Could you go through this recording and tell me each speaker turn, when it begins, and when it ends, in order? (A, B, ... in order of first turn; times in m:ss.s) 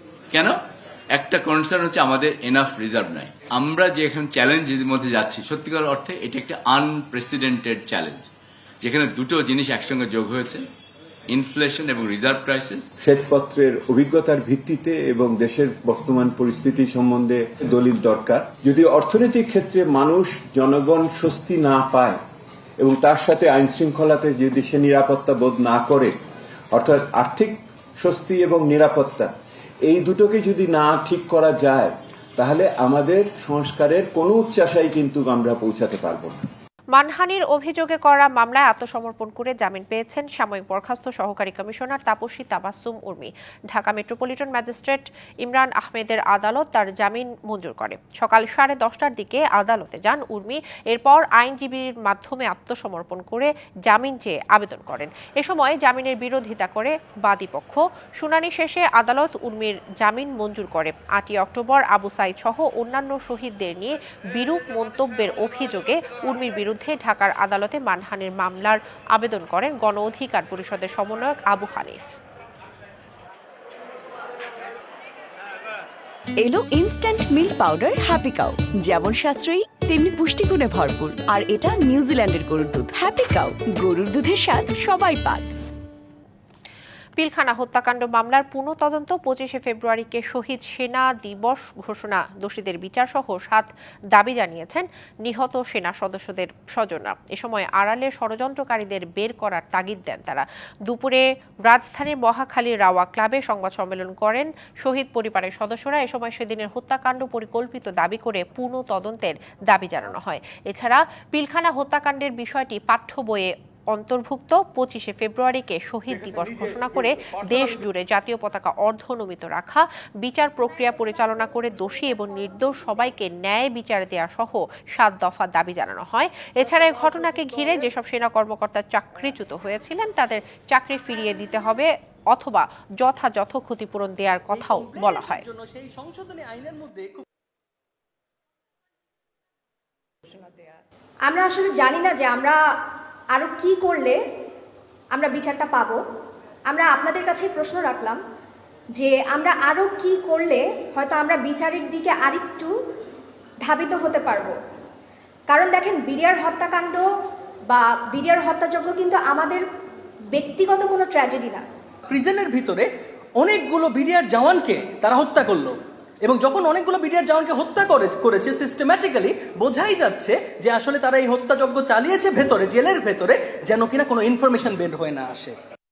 0:01.1-0:08.2 A
0:08.8-0:10.6 A
0:11.3-0:12.9 A
0:13.0-0:22.2 B
0:22.8-0:26.2 B
0:26.7-0:29.3 B
0:29.9-0:36.4 B
0:36.9-1:12.1 C
1:16.4-1:25.5 D
1:27.2-2:15.4 C
1:56.1-1:57.8 E
2:14.5-2:17.2 E
2:21.3-2:22.6 F
2:23.3-2:24.2 F
2:25.1-2:26.0 F
2:26.7-2:28.2 F
2:29.0-2:32.7 F
2:33.6-2:34.6 F
2:35.5-2:37.1 F
2:37.7-2:39.6 F
2:40.3-2:41.6 F
2:42.1-2:42.9 E
2:43.4-2:55.6 E